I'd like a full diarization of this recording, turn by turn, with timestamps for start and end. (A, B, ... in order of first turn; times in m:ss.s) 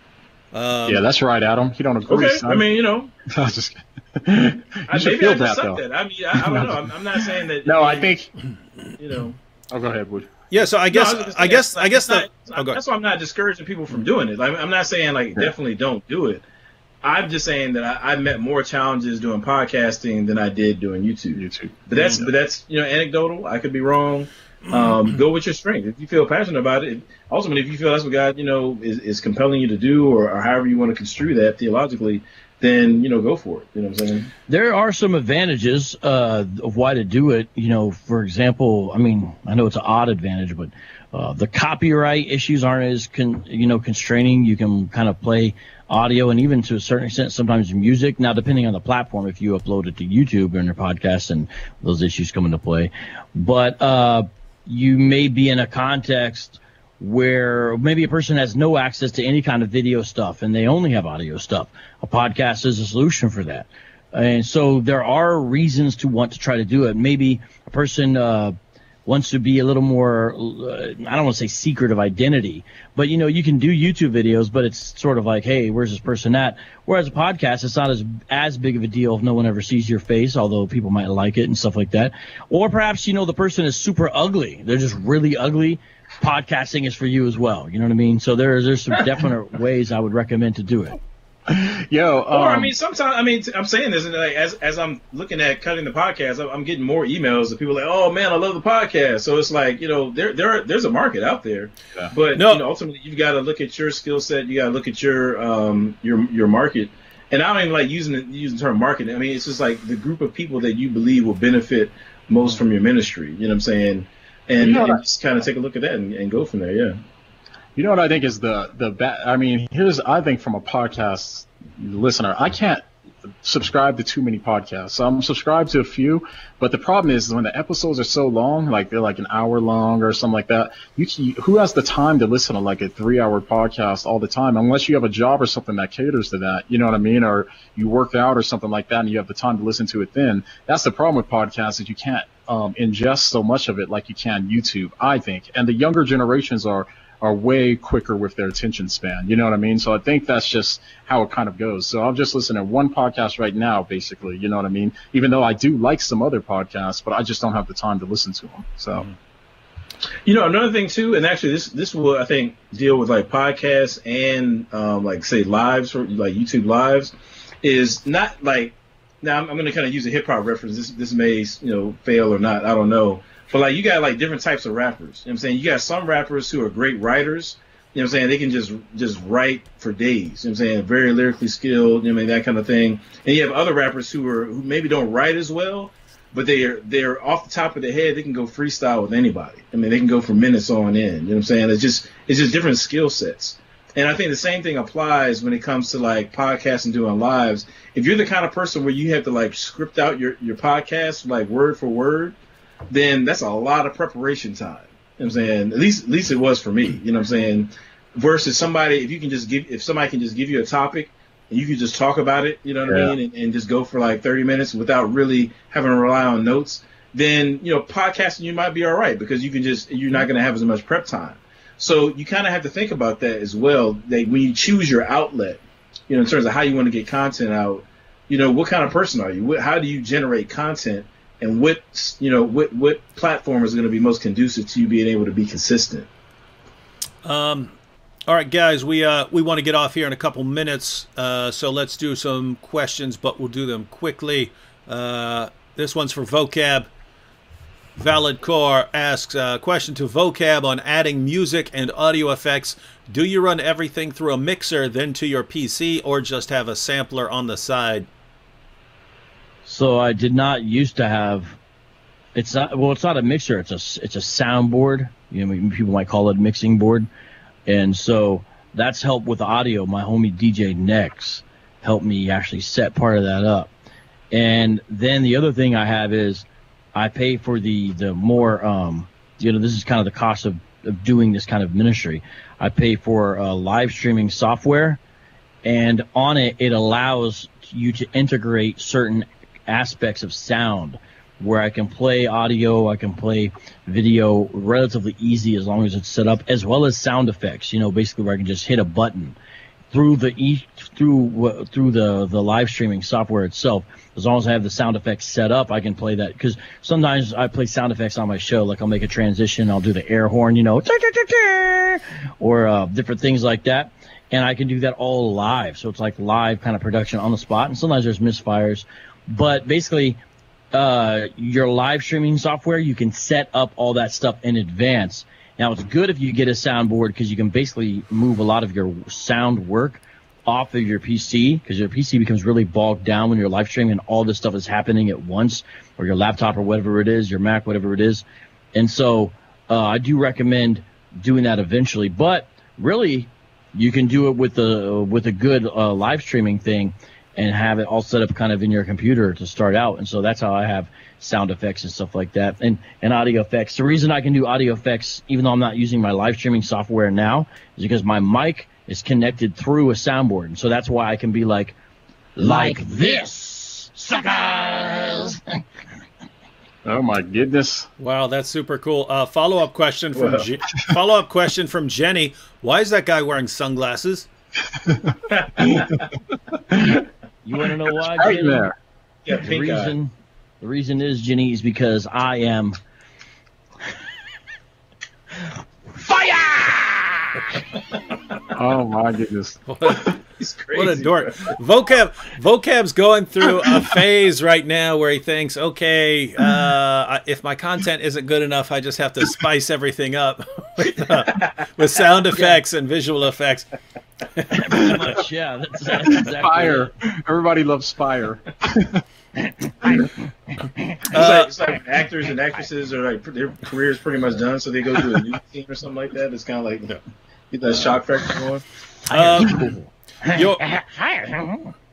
0:00.5-0:01.0 A
0:00.9-0:02.7 B
0:02.1-0:03.1 C
0:03.3-0:05.8 B
0:04.9-0:08.1 C
0:06.3-0:08.3 B
0:09.0-0:09.4 C
0:09.7-0:10.3 B
0:10.5-0:12.8 A
0:10.9-0:16.4 C
0:17.0-0:34.3 C
0:21.3-0:22.3 B
0:34.5-1:08.6 D
1:09.1-1:31.0 D
1:31.5-1:32.7 B
1:32.3-1:57.0 C
1:42.4-1:42.6 A
1:54.6-1:55.0 B
1:57.8-2:02.8 B
2:03.4-2:39.1 B
2:40.2-3:22.4 C
3:22.9-3:56.1 C
3:32.9-3:33.2 B
3:57.2-3:57.7 A
3:58.3-4:06.9 A
4:08.0-4:18.1 A
4:19.7-4:21.6 D
4:22.4-4:27.1 D
4:27.7-4:33.7 D
4:34.3-4:45.0 D
4:45.6-4:59.4 D
4:59.9-5:20.2 D
5:20.7-6:01.7 D
6:02.4-6:05.6 D
6:06.8-6:07.9 B
6:08.0-6:14.3 A
6:10.2-6:10.5 C
6:14.7-6:16.0 B
6:15.3-6:16.0 C
6:16.7-6:17.1 B
6:17.4-6:18.6 D
6:18.1-6:18.8 B
6:19.3-6:20.0 C
6:19.3-6:22.8 D
6:25.9-6:27.6 D
6:28.5-6:30.1 B
6:29.7-6:30.2 A
6:30.4-6:31.6 C
6:30.7-6:43.7 A
6:42.3-6:42.6 D
6:44.5-6:46.9 D
6:46.0-6:49.0 B
6:49.4-6:50.1 D
6:51.1-6:51.5 A
6:51.1-6:56.9 C
6:57.5-6:58.6 C
6:59.1-7:01.7 D
6:59.1-6:59.7 A
7:00.3-7:00.6 A